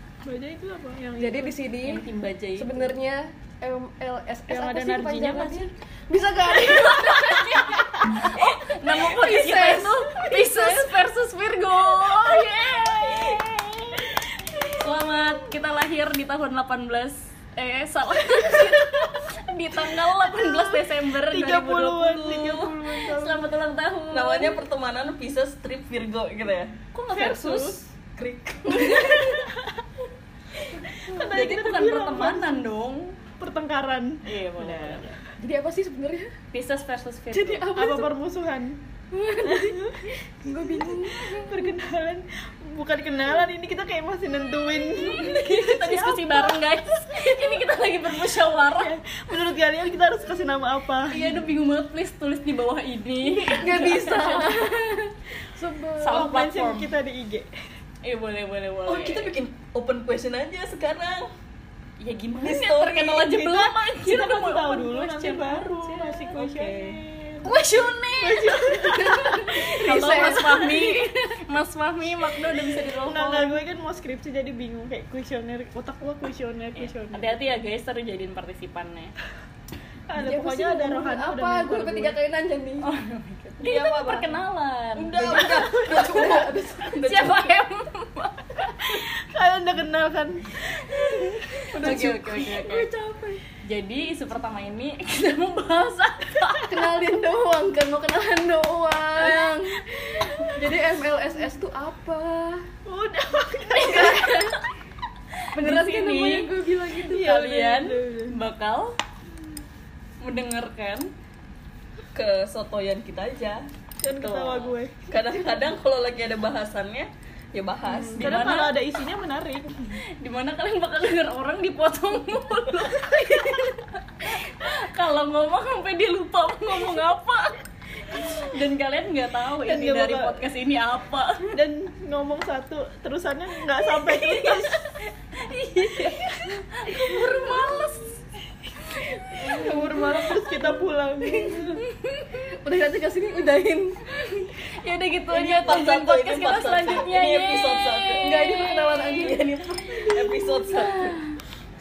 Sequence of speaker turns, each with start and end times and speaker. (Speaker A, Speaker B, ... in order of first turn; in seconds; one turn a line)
Speaker A: 0.2-1.5
Speaker B: 1.2-2.0
Speaker C: 1.8-2.9
Speaker B: 2.6-8.3
Speaker A: 4.5-5.7
Speaker C: 6.8-14.1
Speaker B: 8.9-11.0
Speaker C: 14.8-24.6
Speaker A: 21.2-23.5
Speaker D: 24.1-26.8
Speaker C: 26.9-27.9
Speaker A: 27.1-27.8
Speaker D: 28.2-29.4
Speaker C: 28.7-29.3
Speaker B: 28.9-29.3
Speaker A: 30.8-32.6
Speaker C: 31.3-33.2
Speaker A: 33.4-35.2
Speaker C: 34.2-35.1
Speaker B: 35.4-36.3
Speaker C: 36.5-37.7
Speaker B: 37.3-38.1
Speaker A: 37.8-38.8
Speaker B: 39.1-39.9
Speaker A: 39.4-46.6
Speaker B: 40.4-41.7
Speaker C: 45.0-49.0
Speaker A: 47.2-47.6
Speaker A: 48.6-51.5
Speaker C: 51.1-54.8
Speaker B: 53.4-56.2
Speaker C: 56.0-57.0
Speaker A: 56.0-57.5
Speaker C: 58.0-59.3
Speaker D: 58.9-61.3
Speaker C: 62.0-68.5
Speaker D: 62.4-63.3
Speaker A: 63.2-67.0
Speaker A: 68.2-69.2
Speaker B: 68.5-71.1
Speaker C: 69.3-73.6
Speaker A: 73.0-77.4
Speaker C: 76.8-79.1
Speaker A: 80.1-82.2
Speaker B: 80.2-82.9
Speaker C: 82.8-85.4
Speaker D: 83.6-84.4
Speaker D: 85.0-87.4
Speaker B: 85.1-87.3
Speaker C: 87.0-89.0
Speaker A: 88.8-92.1
Speaker C: 90.9-92.9
Speaker B: 91.7-93.4
Speaker C: 93.6-96.9
Speaker B: 96.7-102.6
Speaker C: 99.2-99.6
Speaker A: 102.9-104.3
Speaker B: 103.8-104.5
Speaker C: 103.8-104.5
Speaker B: 105.5-107.8
Speaker C: 105.5-106.5
Speaker A: 107.1-108.4
Speaker C: 107.1-109.0
Speaker C: 110.2-111.1
Speaker D: 112.1-113.6
Speaker A: 114.0-115.0
Speaker C: 114.1-114.8
Speaker D: 115.1-118.4
Speaker A: 117.9-120.0
Speaker C: 118.2-118.8
Speaker C: 120.2-131.5
Speaker A: 129.6-130.5
Speaker A: 131.5-134.9
Speaker C: 133.9-134.8
Speaker C: 135.3-138.2
Speaker C: 139.0-140.2
Speaker A: 139.4-141.8
Speaker B: 141.3-141.6
Speaker C: 142.0-142.4
Speaker B: 142.5-144.0
Speaker C: 144.1-151.3
Speaker D: 145.3-151.2
Speaker B: 148.2-149.3
Speaker A: 149.9-150.5